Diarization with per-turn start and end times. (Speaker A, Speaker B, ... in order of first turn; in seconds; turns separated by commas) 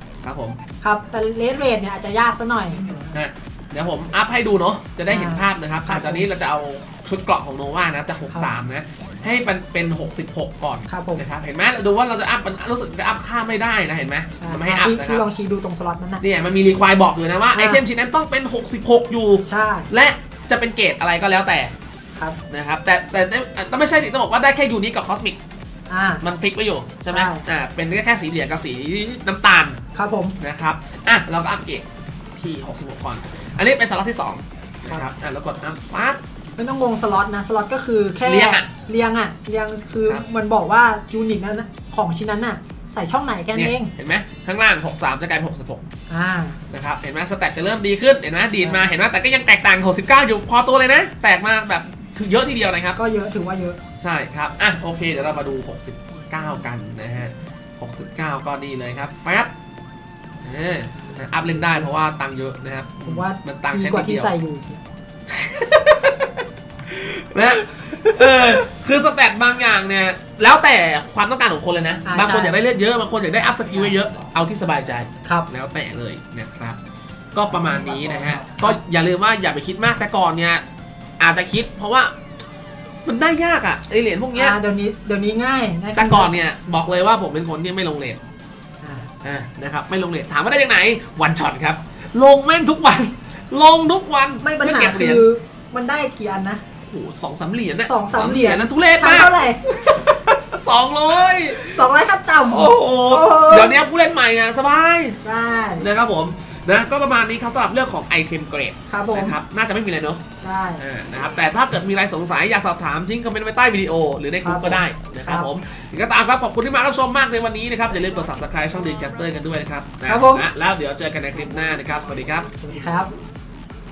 Speaker A: 0.2-0.6, Speaker B: 0.8-2.8, Speaker A: 3.1-15.2, Speaker B: 5.1-6.2, Speaker B: 10.9-11.2, Speaker B: 14.4-16.2, Speaker A: 16.2-21.7, Speaker B: 17.5-17.8, Speaker B: 19.4-19.9, Speaker A: 22.5-25.4, Speaker B: 25.9-26.2, Speaker A: 26.2-29.8, Speaker B: 27.1-27.4, Speaker B: 29.9-30.4, Speaker A: 30.4-36.2, Speaker B: 36.6-43.9, Speaker A: 38.2-38.7, Speaker A: 43.5-45.8, Speaker B: 46.1-46.6, Speaker A: 46.7-53.0, Speaker B: 53.0-53.8, Speaker A: 54.0-59.5, Speaker A: 60.4-64.3, Speaker B: 61.4-61.9, Speaker B: 63.0-64.8, Speaker A: 65.3-76.8, Speaker B: 67.8-68.6, Speaker B: 72.0-72.6, Speaker A: 77.3-80.6, Speaker A: 81.2-82.1, Speaker A: 83.0-84.5, Speaker B: 84.3-86.3, Speaker A: 85.9-88.2, Speaker B: 88.8-89.1, Speaker A: 89.2-95.2, Speaker B: 94.4-96.6, Speaker A: 96.8-101.8, Speaker B: 97.8-99.6, Speaker B: 101.5-103.8, Speaker A: 102.5-105.2, Speaker B: 105.2-105.9, Speaker A: 105.8-110.2, Speaker B: 108.9-109.4, Speaker B: 110.4-110.8, Speaker A: 110.8-122.5, Speaker B: 114.4-115.5, Speaker B: 120.0-120.5, Speaker B: 122.5-123.1